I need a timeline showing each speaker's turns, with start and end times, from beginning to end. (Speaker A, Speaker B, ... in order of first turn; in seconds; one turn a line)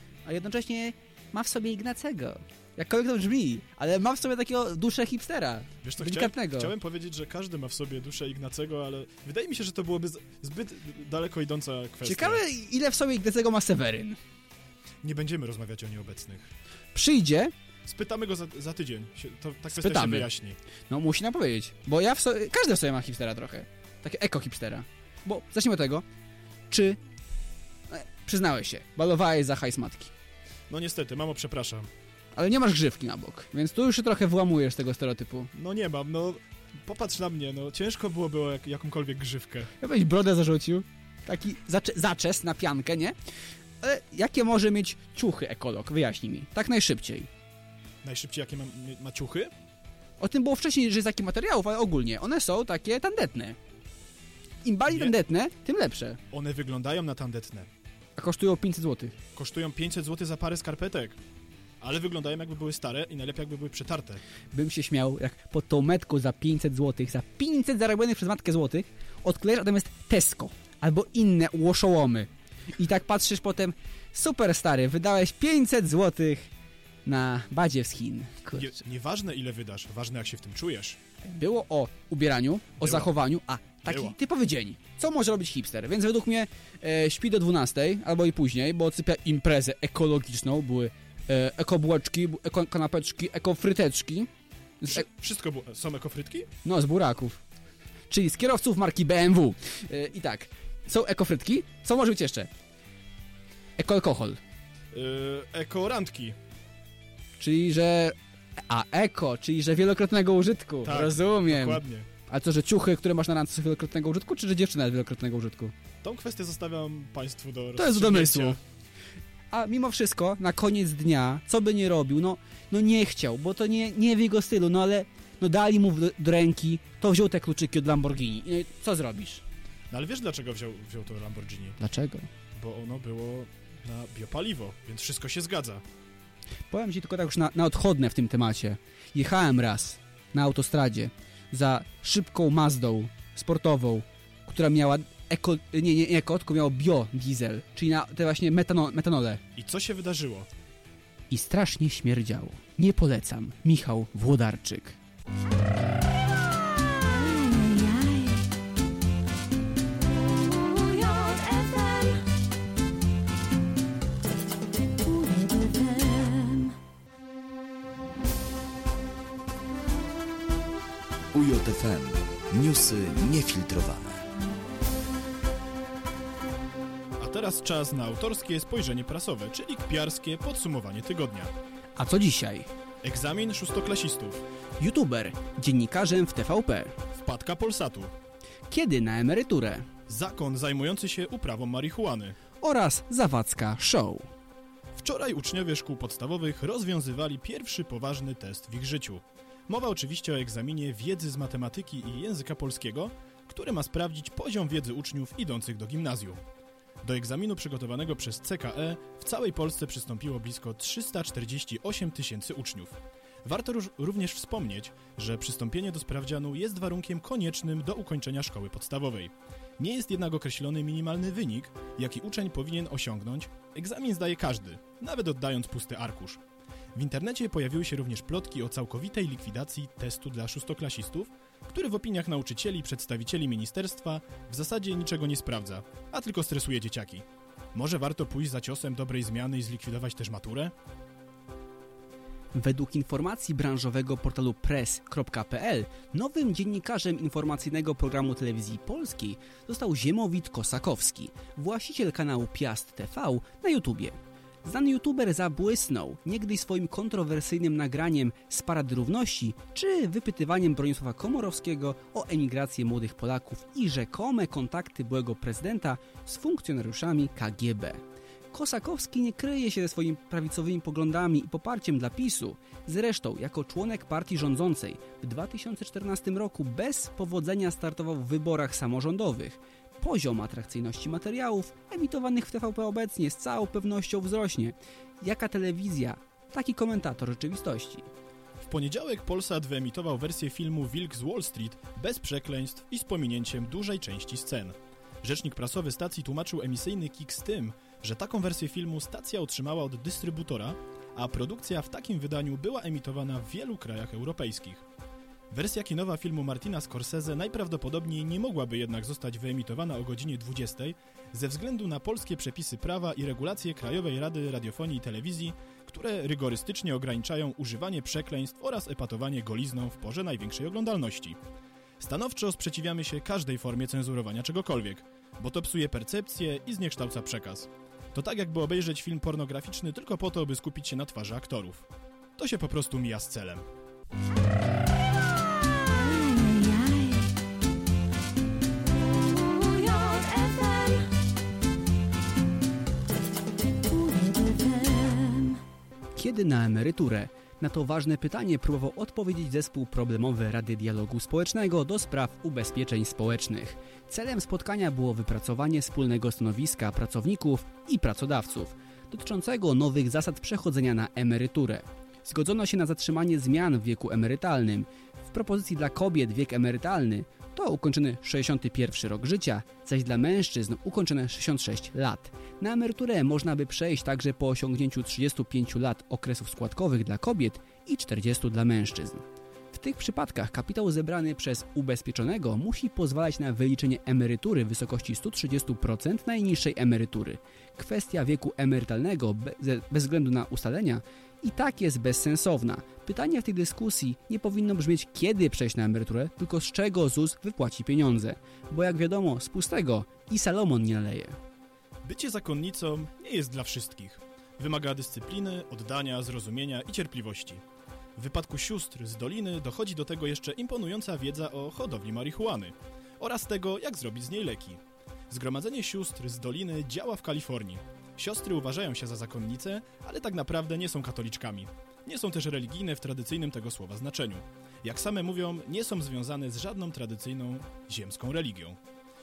Speaker A: 0.2-6.7
Speaker B: 5.8-12.4
Speaker A: 12.0-14.2
Speaker B: 15.0-16.5
Speaker A: 16.9-17.5
Speaker B: 17.9-20.6
Speaker A: 19.8-20.3
Speaker A: 20.9-26.0
Speaker A: 26.7-27.0
Speaker A: 27.9-30.1
Speaker B: 30.7-31.9
Speaker A: 32.3-35.5
Speaker B: 35.5-39.7
Speaker A: 39.8-43.1
Speaker A: 43.8-47.3
Speaker B: 48.0-49.5
Speaker A: 50.2-53.6
Speaker A: 54.6-56.2
Speaker B: 54.9-55.1
Speaker B: 56.3-57.7
Speaker A: 58.2-59.1
Speaker B: 59.3-61.2
Speaker B: 61.8-64.2
Speaker A: 64.5-76.5
Speaker A: 77.0-78.8
Speaker B: 78.5-81.0
Speaker A: 81.2-95.1
Speaker B: 82.8-83.2
Speaker B: 83.8-84.1
Speaker B: 94.9-96.5
Speaker A: 96.6-97.4
Speaker A: 98.1-102.5
Speaker A: 103.8-104.4
Speaker B: 104.9-106.4
Speaker A: 107.4-115.7
Speaker B: 110.8-112.1
Speaker B: 116.0-118.6
Speaker A: 117.8-118.6
Speaker A: 119.5-129.4
Speaker B: 129.9-131.8
Speaker A: 131.8-132.3
Speaker B: 132.5-135.8
Speaker A: 136.7-149.4
Speaker B: 149.6-150.5
Speaker A: 151.3-155.0
Speaker C: 171.3-174.2
Speaker B: 177.2-181.5
Speaker A: 181.9-182.7
Speaker B: 183.0-184.4
Speaker A: 184.8-186.9
Speaker B: 187.2-188.1
Speaker A: 188.7-189.9
Speaker B: 190.1-192.4
Speaker A: 192.6-194.3
Speaker B: 194.9-206.4
Speaker B: 207.0-226.4
Speaker B: 226.9-240.7
Speaker A: 242.5-268.0
Speaker A: 268.5-288.1
Speaker B: 288.6-304.8
Speaker B: 305.5-321.4
Speaker B: 322.0-333.7
Speaker A: 346.1-401.4
Speaker B: 402.0-407.6
Speaker B: 408.1-428.8